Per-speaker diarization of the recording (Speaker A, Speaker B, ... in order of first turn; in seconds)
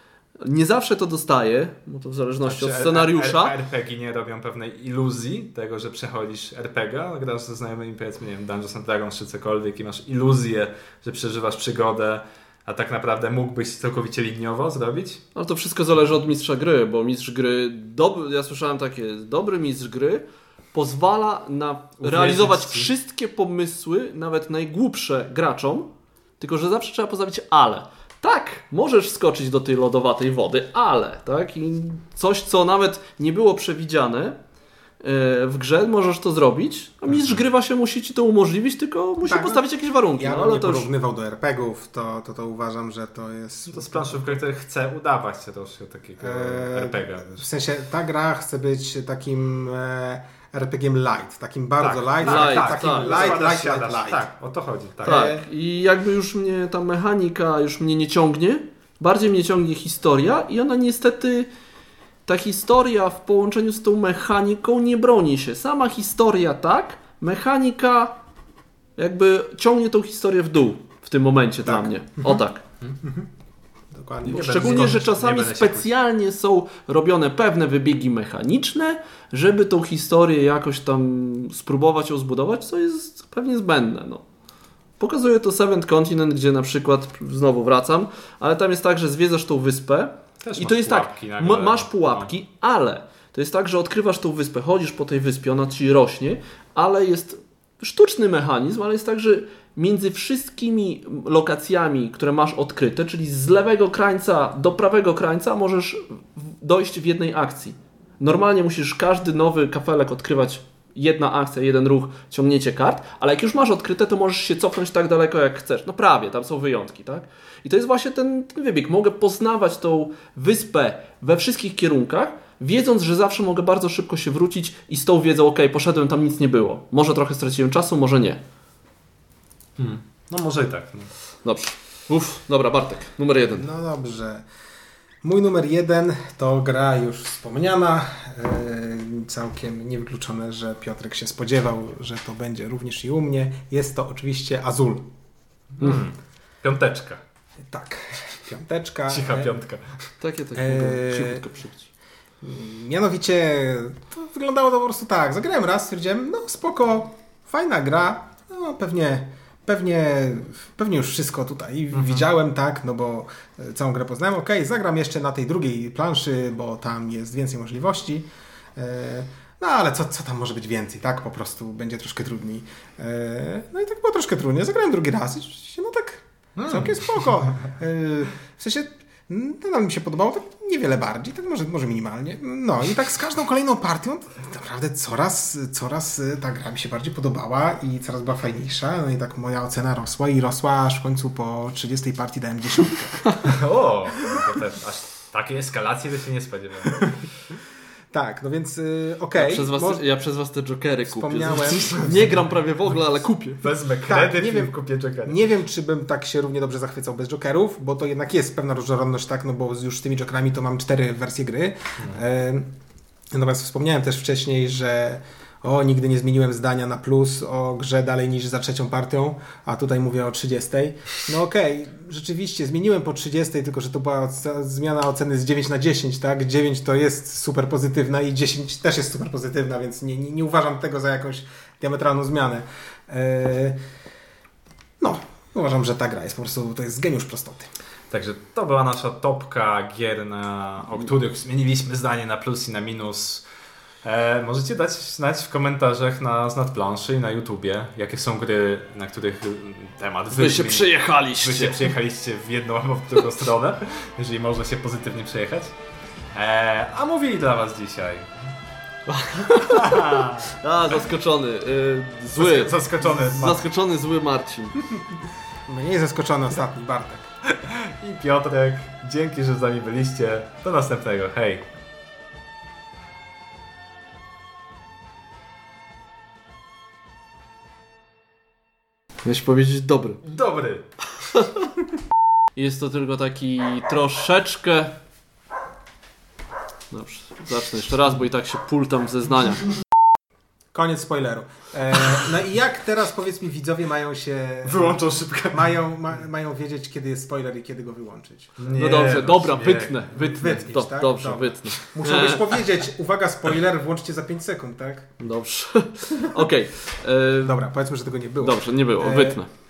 Speaker A: 0.4-3.5, 15.3-34.4, 35.0-40.9, 52.2-53.3, 55.0-61.5, 62.3-68.2, 69.0-72.6, 74.2-84.2, 85.0-128.4, 131.4-133.7, 150.2-151.9, 199.3-203.6, 250.3-251.9, 259.1-264.8, 279.2-280.2, 282.6-284.9, 286.9-289.6, 298.7-302.6, 305.2-307.6, 308.4-309.5
Speaker B: 2.4-15.2, 22.0-22.9, 43.7-47.4, 51.8-55.3, 74.2-75.9, 90.4-92.3, 129.8-131.1, 145.8-147.2, 149.1-149.9, 161.9-162.3, 176.6-177.0, 193.4-197.1, 201.5-202.5, 203.6-205.4, 238.1-243.4, 244.0-255.7, 256.3-258.3, 259.6-260.5, 262.3-263.6, 267.6-271.6, 280.2-280.9, 294.6-295.7, 298.6-300.5
Speaker C: 39.2-44.4, 46.2-54.3, 55.0-55.4, 71.6-72.4, 73.0-73.3, 73.9-75.0, 133.5-134.4, 135.2-145.1, 147.6-149.5, 150.5-151.5, 152.4-193.5, 194.2-194.5, 196.9-197.2, 198.1-200.0, 201.1-202.1, 204.0-212.7, 213.3-233.8, 235.0-237.7, 265.7-267.3, 290.7-298.6, 300.2-305.2, 307.4-309.4